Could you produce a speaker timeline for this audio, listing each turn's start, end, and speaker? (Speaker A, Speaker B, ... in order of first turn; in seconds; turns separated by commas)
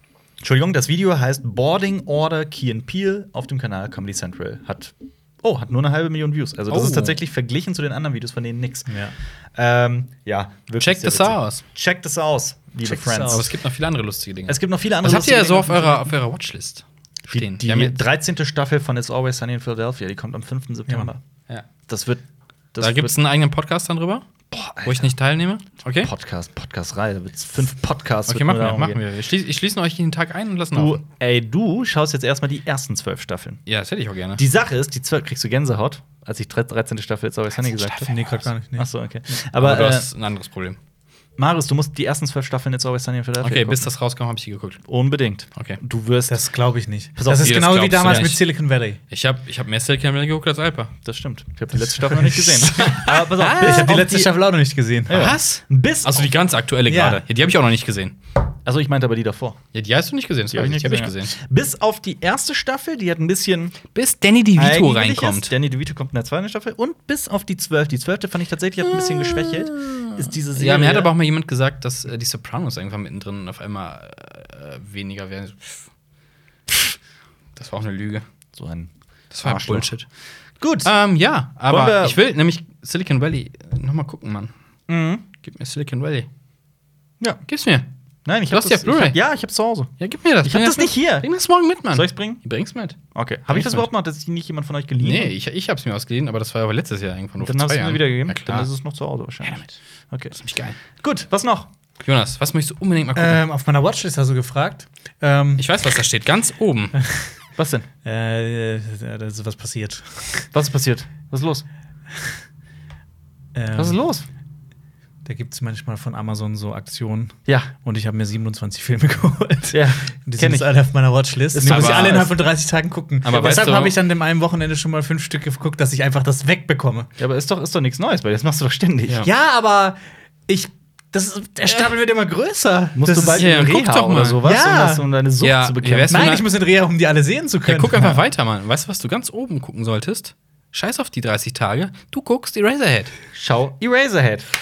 Speaker A: 0.4-8.9, Speaker B: 6.7-7.2, Speaker C: 8.9-9.1, Speaker A: 9.5-13.5, Speaker B: 10.8-11.6, Speaker C: 12.8-13.4, Speaker B: 13.3-18.0, Speaker A: 14.5-16.1, Speaker A: 17.3-21.2, Speaker A: 21.9-22.2, Speaker A: 22.7-23.1, Speaker B: 22.8-24.2, Speaker A: 24.5-25.1, Speaker B: 24.8-26.1, Speaker A: 26.0-29.0, Speaker B: 28.3-31.0, Speaker A: 30.7-33.6, Speaker B: 33.6-34.4, Speaker A: 34.4-38.1, Speaker B: 37.5-38.5, Speaker C: 38.1-38.9, Speaker A: 38.8-40.1, Speaker B: 39.5-40.8, Speaker A: 41.4-43.9, Speaker B: 43.4-44.8, Speaker A: 44.9-46.4, Speaker C: 46.3-49.0, Speaker A: 47.1-48.3, Speaker B: 47.3-48.4, Speaker B: 49.1-50.9, Speaker A: 51.0-54.3, Speaker C: 51.8-55.3, Speaker B: 52.8-54.0, Speaker A: 55.1-56.3, Speaker B: 55.1-58.1, Speaker C: 56.9-57.2, Speaker A: 58.6-59.6, Speaker B: 59.7-61.4, Speaker A: 60.5-63.8, Speaker B: 63.9-65.5, Speaker A: 64.5-71.1, Speaker B: 68.9-75.8, Speaker B: 77.5-78.2, Speaker A: 78.5-78.9, Speaker B: 79.3-80.1, Speaker A: 79.4-79.9, Speaker A: 80.6-80.9, Speaker B: 80.8-84.5, Speaker A: 81.7-82.2, Speaker A: 84.9-85.2, Speaker B: 85.4-86.3, Speaker B: 87.5-87.9, Speaker A: 88.2-89.9, Speaker B: 88.5-89.2, Speaker B: 90.0-93.9, Speaker A: 90.4-91.3, Speaker A: 91.9-92.4, Speaker A: 93.1-95.3, Speaker B: 95.0-98.7, Speaker A: 97.4-100.4, Speaker B: 100.4-100.8, Speaker A: 100.9-101.7, Speaker B: 102.0-103.4, Speaker C: 103.1-105.7, Speaker B: 105.6-106.9, Speaker C: 107.0-107.3, Speaker A: 107.6-107.9, Speaker C: 108.0-110.5, Speaker A: 110.5-111.7, Speaker C: 113.5-114.0, Speaker A: 113.8-114.2, Speaker C: 115.2-127.1, Speaker A: 117.5-117.7, Speaker A: 119.7-120.7, Speaker A: 121.5-122.3, Speaker B: 121.7-122.2, Speaker B: 123.2-124.0, Speaker A: 127.2-129.3, Speaker C: 129.2-133.5, Speaker A: 132.9-136.4, Speaker B: 133.4-134.4, Speaker C: 134.4-135.0, Speaker B: 135.4-136.4, Speaker C: 136.1-138.2, Speaker B: 137.6-143.1, Speaker A: 143.3-144.5